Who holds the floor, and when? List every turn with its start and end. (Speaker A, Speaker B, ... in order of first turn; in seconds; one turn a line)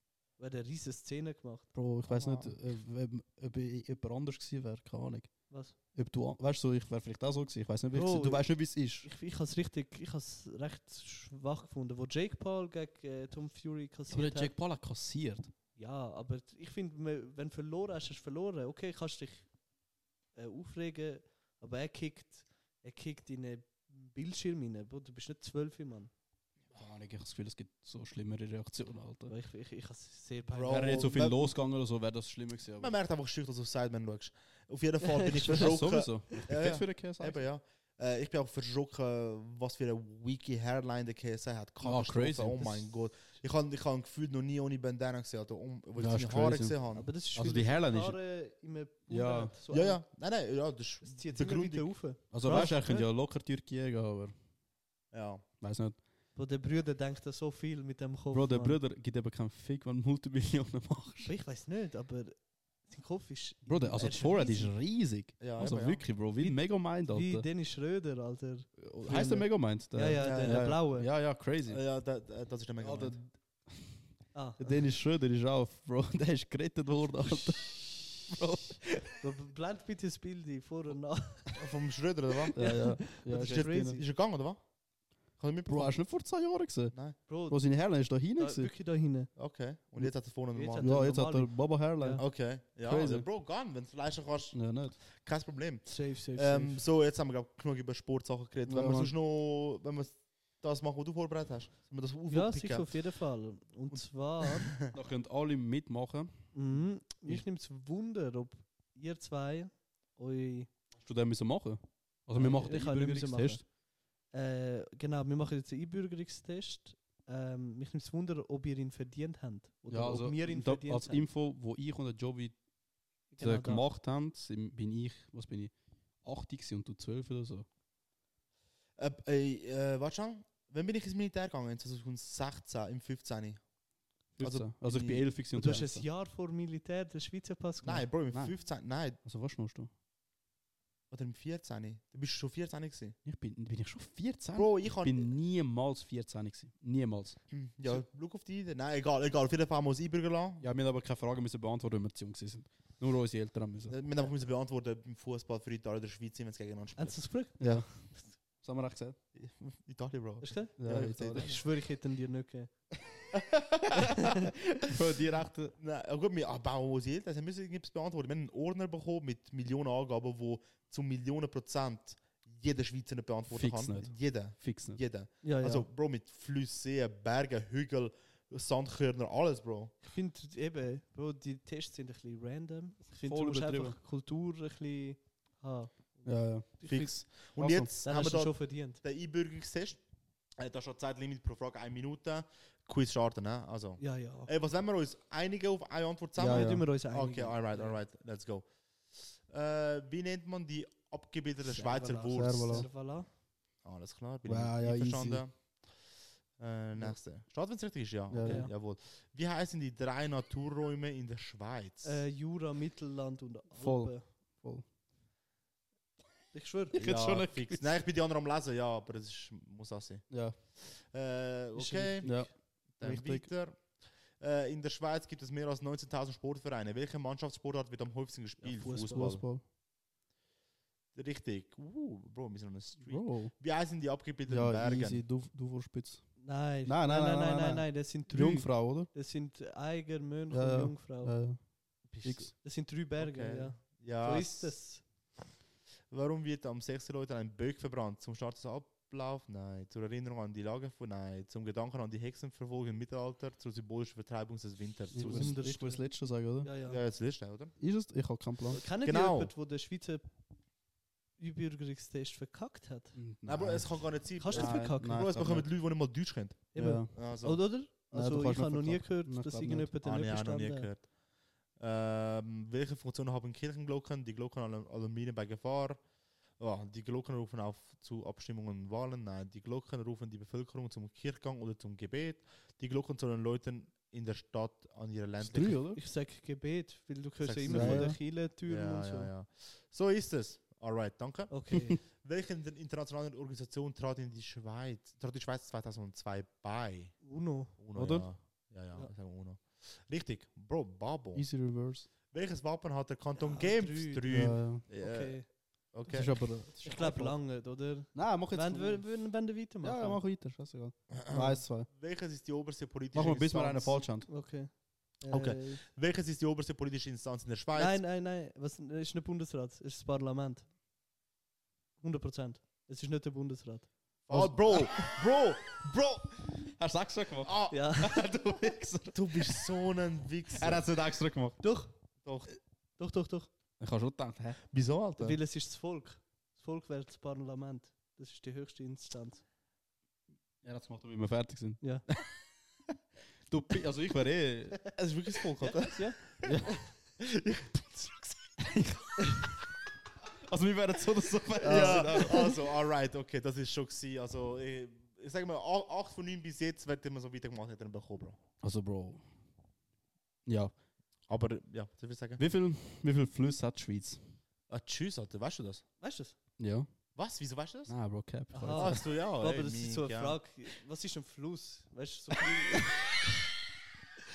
Speaker A: 0.4-1.7
Speaker B: 1.7-5.3
Speaker C: 2.1-2.5
Speaker A: 5.5-5.8
Speaker B: 6.0-9.1
Speaker A: 7.9-14.5
Speaker B: 14.1-15.5
Speaker A: 15.8-19.5
Speaker A: 20.4-26.1
Speaker B: 26.7-29.3
Speaker A: 29.3-31.0
Speaker C: 30.5-31.5
Speaker B: 30.7-33.0
Speaker C: 32.8-47.1
Speaker A: 35.0-35.7
Speaker B: 35.5-37.4
Speaker B: 41.8-42.9
Speaker B: 46.0-46.8
Speaker A: 46.9-50.0
Speaker B: 47.3-48.2
Speaker B: 49.1-49.5
Speaker C: 49.7-51.9
Speaker A: 51.0-53.1
Speaker B: 52.3-54.3
Speaker C: 52.5-52.8
Speaker C: 55.1-55.4
Speaker B: 55.6-56.0
Speaker A: 56.4-58.8
Speaker B: 58.3-61.3
Speaker A: 61.2-64.8
Speaker B: 63.7-67.5
Speaker C: 65.4-66.0
Speaker A: 66.4-71.1
Speaker B: 68.8-71.8
Speaker C: 70.2-70.6
Speaker C: 71.7-73.2
Speaker B: 72.8-74.0
Speaker A: 74.3-74.8
Speaker B: 74.6-79.2
Speaker A: 79.2-81.6
Speaker C: 81.5-82.6
Speaker B: 82.5-84.0
Speaker A: 82.6-84.0
Speaker C: 83.3-84.6
Speaker C: 85.4-86.0
Speaker B: 85.7-87.0
Speaker A: 87.3-87.6
Speaker B: 87.5-88.7
Speaker A: 88.2-89.3
Speaker C: 89.4-90.9
Speaker A: 90.5-92.2
Speaker B: 90.8-92.3
Speaker C: 92.2-103.0
Speaker B: 92.8-93.3
Speaker B: 94.5-95.0
Speaker A: 95.9-96.8
Speaker B: 98.7-99.1
Speaker A: 102.3-104.8
Speaker C: 103.9-104.9
Speaker B: 104.9-106.4
Speaker A: 106.5-110.7
Speaker B: 111.0-113.6
Speaker A: 112.3-113.6
Speaker A: 114.3-121.2
Speaker B: 119.9-122.6
Speaker A: 123.3-123.9
Speaker B: 123.4-125.7
Speaker B: 126.2-127.7
Speaker C: 129.0-133.6
Speaker B: 134.4-136.1
Speaker C: 134.4-135.3
Speaker A: 135.5-138.1
Speaker C: 137.8-139.2
Speaker B: 139.2-139.9
Speaker C: 141.1-143.2
Speaker B: 143.2-147.4
Speaker C: 144.6-145.3
Speaker C: 147.5-150.7
Speaker B: 150.6-154.0
Speaker C: 153.9-157.2
Speaker A: 157.0-158.3
Speaker B: 157.6-157.9
Speaker B: 158.5-159.2
Speaker C: 159.3-161.6
Speaker A: 160.4-160.8
Speaker B: 160.8-161.5
Speaker A: 161.3-162.7
Speaker C: 163.3-164.2
Speaker B: 164.3-165.8
Speaker C: 165.8-179.9
Speaker B: 173.5-175.0
Speaker A: 175.4-175.9
Speaker A: 180.0-187.1
Speaker B: 183.2-184.0
Speaker B: 186.2-186.7
Speaker C: 186.8-190.0
Speaker B: 187.6-187.9
Speaker A: 188.0-189.0
Speaker C: 190.6-198.7
Speaker A: 194.0-194.5
Speaker B: 196.4-196.9
Speaker A: 196.4-198.0
Speaker C: 199.5-202.9
Speaker A: 201.6-203.3
Speaker B: 202.3-202.9
Speaker C: 203.8-205.5
Speaker B: 204.4-205.4
Speaker C: 206.6-212.2
Speaker B: 208.3-208.7
Speaker A: 208.4-208.7
Speaker A: 212.0-214.2
Speaker B: 213.8-214.8
Speaker A: 216.5-217.0
Speaker B: 216.9-218.0
Speaker C: 216.9-220.2
Speaker B: 220.3-220.6
Speaker C: 220.8-222.3
Speaker A: 221.8-222.5
Speaker B: 222.2-222.5
Speaker C: 223.0-223.8
Speaker B: 223.0-223.5
Speaker C: 224.4-229.4
Speaker A: 228.6-229.3
Speaker B: 228.8-229.6
Speaker C: 231.2-235.2
Speaker B: 233.0-233.5
Speaker B: 234.5-236.3
Speaker A: 236.4-241.4
Speaker B: 236.8-239.1
Speaker B: 240.5-241.6
Speaker C: 242.1-242.5
Speaker B: 242.2-242.5
Speaker A: 242.6-245.0
Speaker C: 243.2-244.8
Speaker C: 246.1-255.6
Speaker B: 255.1-256.7
Speaker A: 255.2-256.0
Speaker A: 256.6-257.0
Speaker C: 256.9-257.8
Speaker B: 257.8-258.8
Speaker A: 258.7-260.2
Speaker C: 259.0-259.5
Speaker A: 261.4-263.1
Speaker B: 263.1-265.7
Speaker C: 263.5-267.6
Speaker A: 264.4-265.2
Speaker A: 266.7-270.9
Speaker B: 266.8-267.1
Speaker B: 268.1-269.9
Speaker C: 270.0-271.1
Speaker C: 271.8-276.0
Speaker C: 276.6-285.8
Speaker B: 285.4-286.0
Speaker A: 285.9-289.3
Speaker C: 287.4-297.2
Speaker B: 287.7-288.2
Speaker A: 291.5-292.0
Speaker B: 291.7-292.0
Speaker A: 297.2-297.8
Speaker C: 297.8-301.5
Speaker B: 297.9-298.3
Speaker B: 301.4-302.1
Speaker C: 302.3-305.4
Speaker A: 303.4-305.5
Speaker B: 304.3-304.8
Speaker C: 305.9-306.3
Speaker B: 306.1-307.4
Speaker A: 306.8-310.2
Speaker B: 308.1-309.1
Speaker B: 309.8-311.9
Speaker C: 311.1-314.0
Speaker B: 313.1-314.3
Speaker A: 314.3-315.8
Speaker C: 315.3-318.0
Speaker A: 317.8-320.7
Speaker A: 322.0-323.9
Speaker C: 324.3-326.4
Speaker B: 324.3-325.1
Speaker B: 326.6-329.8
Speaker C: 327.4-327.8
Speaker A: 327.7-328.2
Speaker C: 329.1-330.9
Speaker B: 330.5-331.6
Speaker A: 331.6-331.9
Speaker C: 332.2-332.5
Speaker A: 333.0-333.5
Speaker B: 333.8-334.6
Speaker C: 334.7-335.4
Speaker A: 335.2-339.4
Speaker B: 340.6-342.2
Speaker B: 343.5-344.9
Speaker C: 344.9-346.5
Speaker A: 345.7-346.3
Speaker B: 346.4-346.8
Speaker C: 347.2-348.6
Speaker B: 348.6-349.5
Speaker B: 350.3-352.6
Speaker A: 351.6-352.6
Speaker C: 351.6-358.4
Speaker B: 358.6-359.2
Speaker B: 360.5-360.7
Speaker C: 361.3-362.4
Speaker B: 362.4-364.3
Speaker C: 364.7-365.8
Speaker A: 366.0-366.4
Speaker B: 366.6-366.9
Speaker C: 367.2-367.9
Speaker B: 367.9-369.0
Speaker A: 368.5-373.1
Speaker C: 368.7-370.4
Speaker B: 372.5-373.0